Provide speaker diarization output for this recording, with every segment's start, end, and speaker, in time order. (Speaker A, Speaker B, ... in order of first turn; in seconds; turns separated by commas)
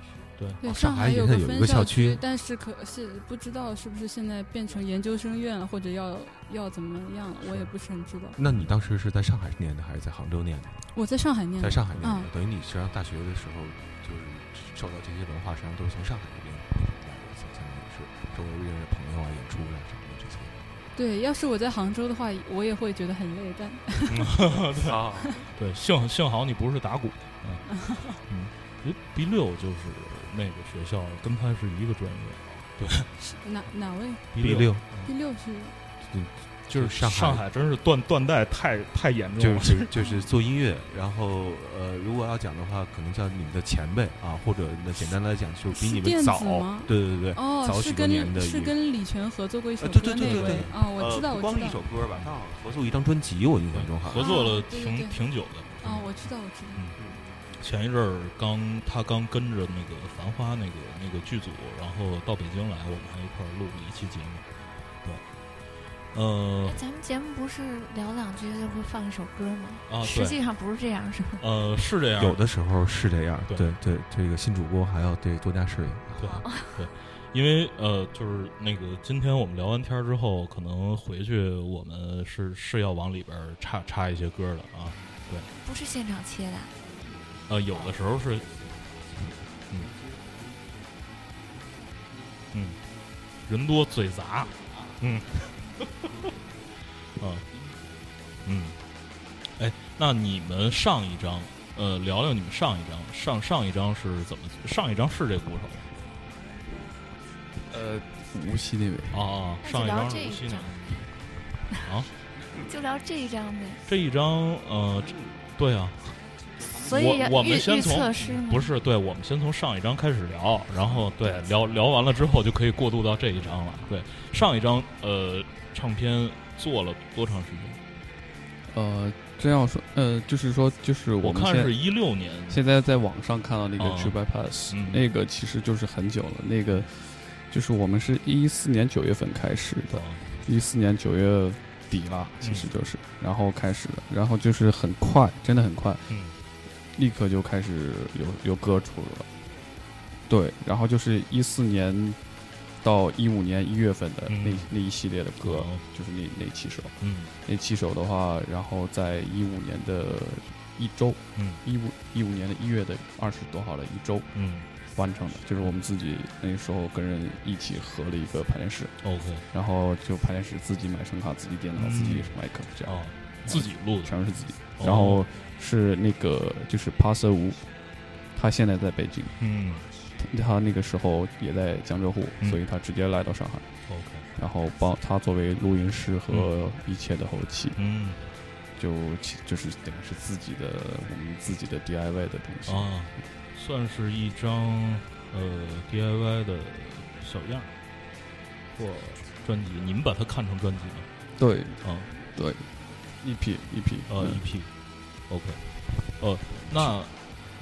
Speaker A: 0.6-8.4, Speaker B: 0.6-2.2, Speaker B: 8.4-10.8, Speaker A: 10.9-12.3, Speaker B: 11.6-20.7, Speaker A: 20.9-24.4, Speaker C: 24.1-25.0, Speaker B: 24.8-25.5, Speaker C: 25.6-27.6, Speaker A: 27.7-28.2, Speaker C: 28.3-33.1, Speaker A: 33.2-34.3, Speaker C: 34.3-35.1, Speaker B: 34.4-34.8, Speaker A: 34.9-35.8, Speaker B: 36.0-37.5, Speaker C: 36.7-39.9, Speaker B: 39.4-48.8, Speaker A: 45.7-51.8, Speaker B: 49.8-54.4, Speaker C: 50.1-50.7, Speaker C: 53.7-56.1, Speaker A: 54.1-55.2, Speaker A: 55.8-56.8, Speaker B: 57.0-57.6, Speaker C: 57.6-64.5, Speaker C: 66.1-66.8, Speaker D: 66.6-71.5, Speaker C: 69.9-70.4, Speaker C: 71.4-72.4, Speaker B: 72.2-76.3, Speaker C: 76.2-85.5, Speaker D: 76.3-76.9, Speaker D: 85.6-86.7, Speaker C: 87.5-88.5, Speaker C: 89.2-89.9, Speaker C: 92.5-92.8, Speaker C: 93.5-95.9, Speaker C: 97.2-97.5, Speaker C: 98.5-98.8, Speaker C: 99.6-105.9, Speaker E: 107.7-109.3, Speaker C: 109.1-111.1, Speaker D: 109.6-111.1, Speaker C: 111.8-112.1, Speaker D: 112.7-113.8, Speaker C: 113.9-116.2, Speaker D: 116.7-118.8, Speaker C: 116.8-127.8, Speaker E: 128.7-131.7, Speaker C: 131.2-132.6, Speaker E: 132.5-146.2, Speaker C: 133.8-134.2, Speaker C: 134.7-135.0, Speaker C: 139.9-140.2, Speaker C: 142.4-142.7, Speaker C: 146.1-146.3, Speaker E: 147.0-149.3, Speaker E: 150.3-152.2, Speaker E: 152.8-164.3, Speaker C: 154.3-154.7, Speaker C: 155.4-155.8, Speaker C: 157.0-157.3, Speaker C: 164.3-164.7, Speaker E: 164.9-168.9, Speaker C: 169.0-169.4, Speaker E: 169.5-177.6, Speaker C: 171.8-172.3, Speaker C: 172.9-174.2, Speaker C: 174.8-175.2, Speaker E: 178.3-179.3, Speaker C: 179.4-179.9, Speaker E: 180.2-183.7, Speaker C: 183.9-184.2, Speaker E: 184.4-187.8, Speaker C: 186.3-186.7, Speaker C: 187.8-188.2, Speaker E: 188.8-192.9, Speaker C: 192.7-197.7, Speaker C: 198.8-201.1, Speaker E: 201.4-202.7, Speaker C: 201.8-202.1, Speaker E: 203.2-204.4, Speaker C: 204.1-204.7, Speaker C: 205.3-207.1